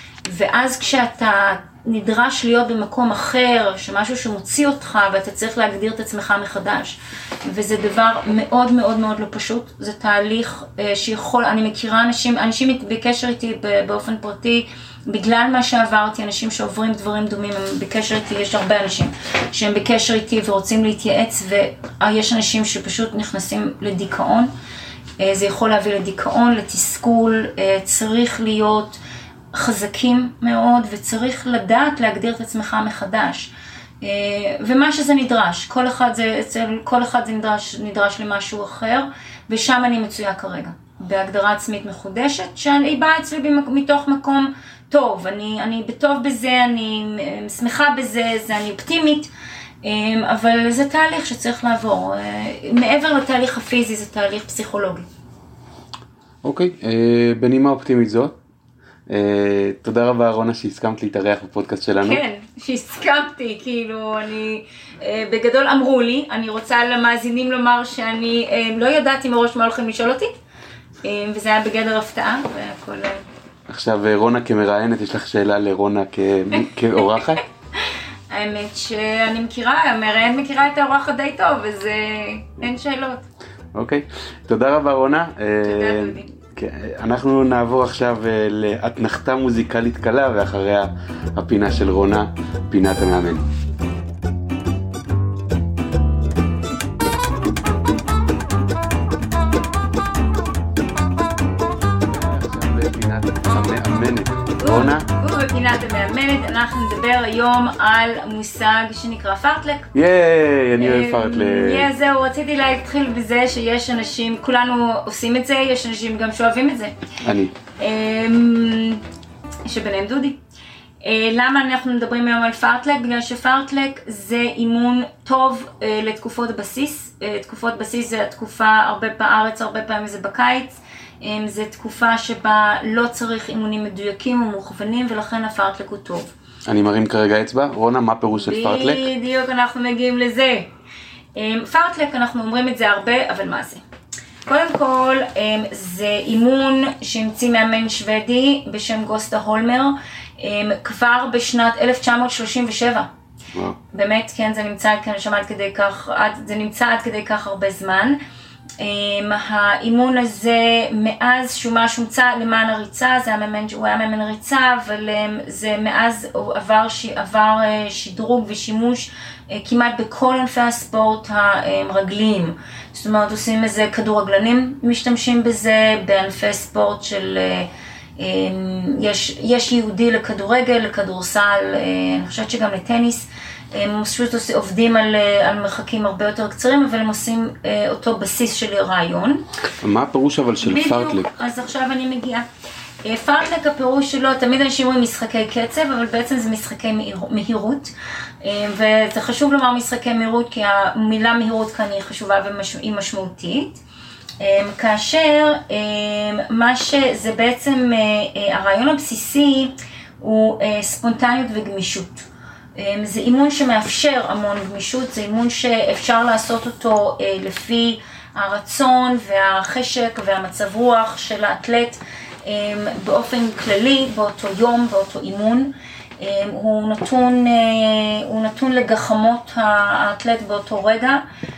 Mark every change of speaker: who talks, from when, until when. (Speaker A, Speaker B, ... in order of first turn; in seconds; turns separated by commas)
Speaker A: 0.3-24.5, Speaker A: 25.2-29.0, Speaker A: 29.5-33.5, Speaker A: 34.0-49.3, Speaker A: 49.8-55.1, Speaker B: 56.4-58.4, Speaker B: 59.1-62.2, Speaker A: 62.0-70.3, Speaker A: 71.0-73.2, Speaker B: 73.7-77.4, Speaker A: 77.8-83.2, Speaker B: 83.8-93.5, Speaker A: 85.6-86.3, Speaker B: 102.0-105.1, Speaker A: 104.6-109.9, Speaker B: 109.9-111.9, Speaker A: 110.8-117.0, Speaker B: 117.2-117.5, Speaker A: 117.8-119.0, Speaker A: 119.7-120.4, Speaker A: 121.0-136.3, Speaker B: 136.7-139.1, Speaker A: 138.3-140.7, Speaker A: 141.3-143.8, Speaker A: 144.5-153.1, Speaker A: 153.9-158.2, Speaker A: 158.8-189.5, Speaker B: 189.8-191.3, Speaker A: 190.6-192.4, Speaker A: 193.0-203.8, Speaker A: 204.4-231.2